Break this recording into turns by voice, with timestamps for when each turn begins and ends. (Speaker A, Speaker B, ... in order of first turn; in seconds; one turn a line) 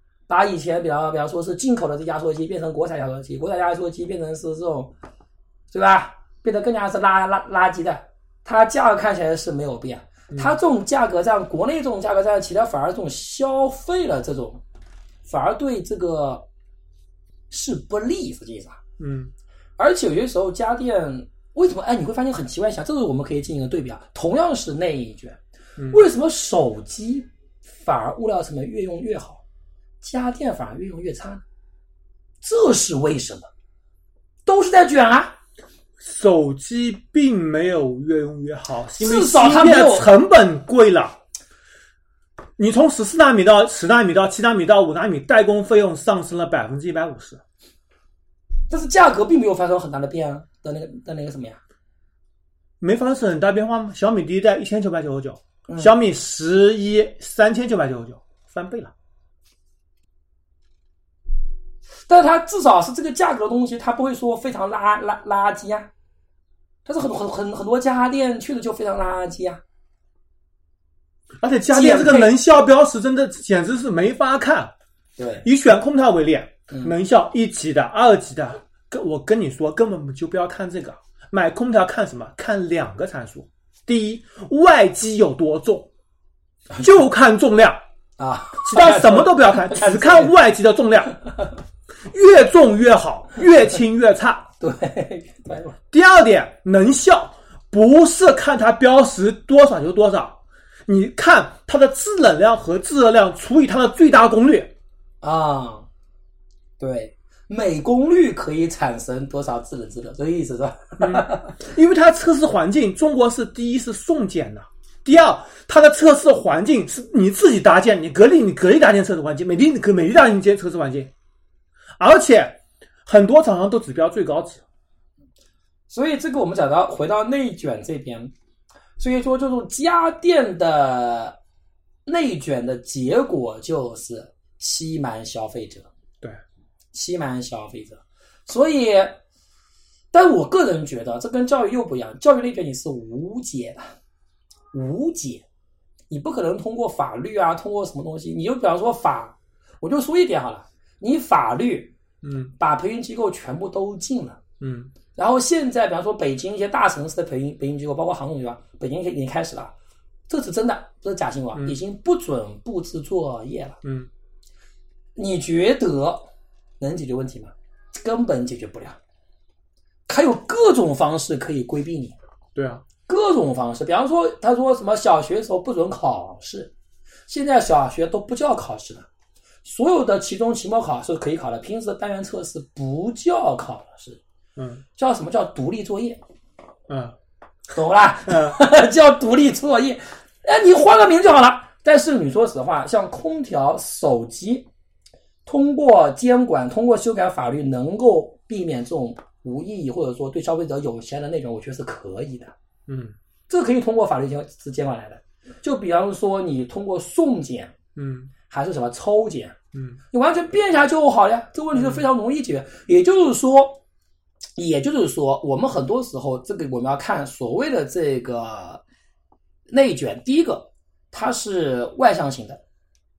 Speaker A: 0.3-4.9
Speaker A: 5.7-14.6
Speaker B: 10.3-10.6
Speaker A: 15.3-16.5
Speaker A: 17.5-18.8
Speaker B: 19.0-19.3
Speaker A: 19.8-25.4
Speaker B: 25.8-26.1
Speaker A: 25.9-27.3
Speaker A: 27.8-29.4
Speaker A: 30.0-31.4
Speaker A: 32.4-33.5
Speaker A: 34.5-35.4
Speaker B: 36.0-41.2
Speaker A: 39.0-40.1
Speaker B: 42.6-47.4
Speaker A: 48.7-51.6
Speaker B: 52.8-58.9
Speaker A: 55.7-55.9
Speaker A: 62.1-65.9
Speaker A: 66.9-69.6
Speaker B: 71.4-74.7
Speaker A: 71.7-72.3
Speaker A: 75.2-75.5
Speaker B: 75.4-85.9
Speaker B: 86.8-87.8
Speaker A: 88.2-90.3
Speaker B: 88.7-91.2
Speaker B: 92.1-94.5
Speaker A: 94.6-95.8
Speaker B: 95.9-104.7
Speaker A: 105.2-105.9
Speaker A: 106.8-111.6
Speaker B: 111.0-121.1
Speaker B: 122.0-124.6
Speaker A: 125.9-128.3
Speaker A: 129.0-131.4
Speaker A: 132.1-135.9
Speaker A: 136.9-139.2
Speaker A: 140.1-143.9
Speaker A: 144.7-145.4
Speaker A: 146.1-151.9
Speaker B: 152.2-152.5
Speaker A: 152.6-154.4
Speaker B: 154.6-154.9
Speaker A: 155.1-159.7
Speaker A: 160.3-163.8
Speaker B: 163.8-164.1
Speaker A: 165.2-166.3
Speaker A: 166.8-169.0
Speaker A: 170.1-172.2
Speaker B: 172.6-172.8
Speaker A: 173.1-176.7
Speaker A: 177.3-179.1
Speaker A: 179.6-184.2
Speaker B: 184.6-184.8
Speaker A: 185.0-186.2
Speaker B: 186.9-187.1
Speaker A: 187.7-194.7
Speaker B: 188.3-188.6
Speaker A: 195.5-202.5
Speaker B: 202.9-203.2
Speaker A: 203.5-207.8
Speaker B: 208.0-208.3
Speaker A: 208.5-209.6
Speaker A: 210.1-213.8
Speaker B: 211.7-212.1
Speaker A: 214.6-218.8
Speaker A: 219.7-222.6